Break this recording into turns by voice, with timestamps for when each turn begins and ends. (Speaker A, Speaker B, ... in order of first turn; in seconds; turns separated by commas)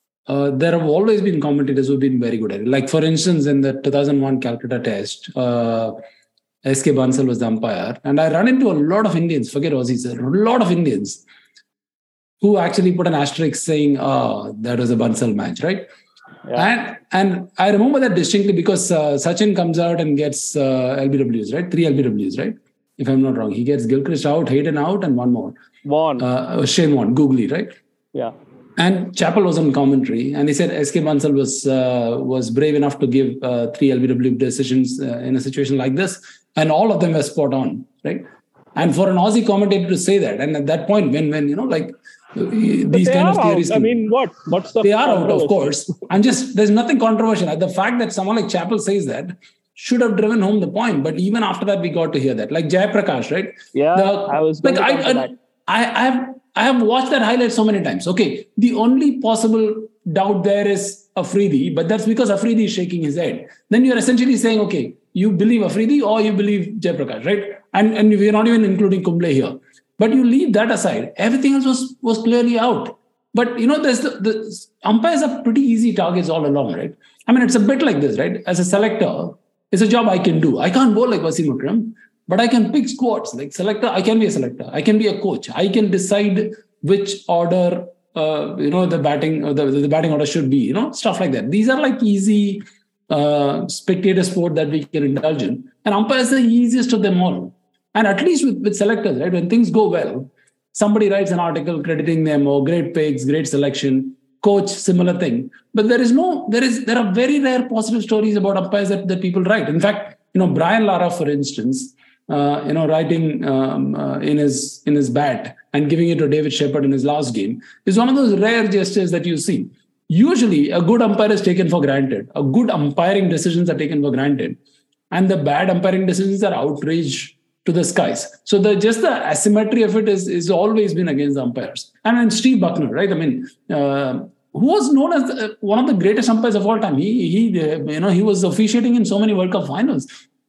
Speaker A: 0.3-6.0, Speaker A: 6.6-11.2, Speaker A: 12.4-15.9, Speaker A: 16.6-25.6, Speaker B: 25.8-26.3, Speaker A: 26.2-27.8, Speaker A: 28.8-44.0, Speaker B: 42.9-46.0, Speaker A: 44.8-124.6, Speaker B: 53.7-55.3, Speaker A: 125.1-140.1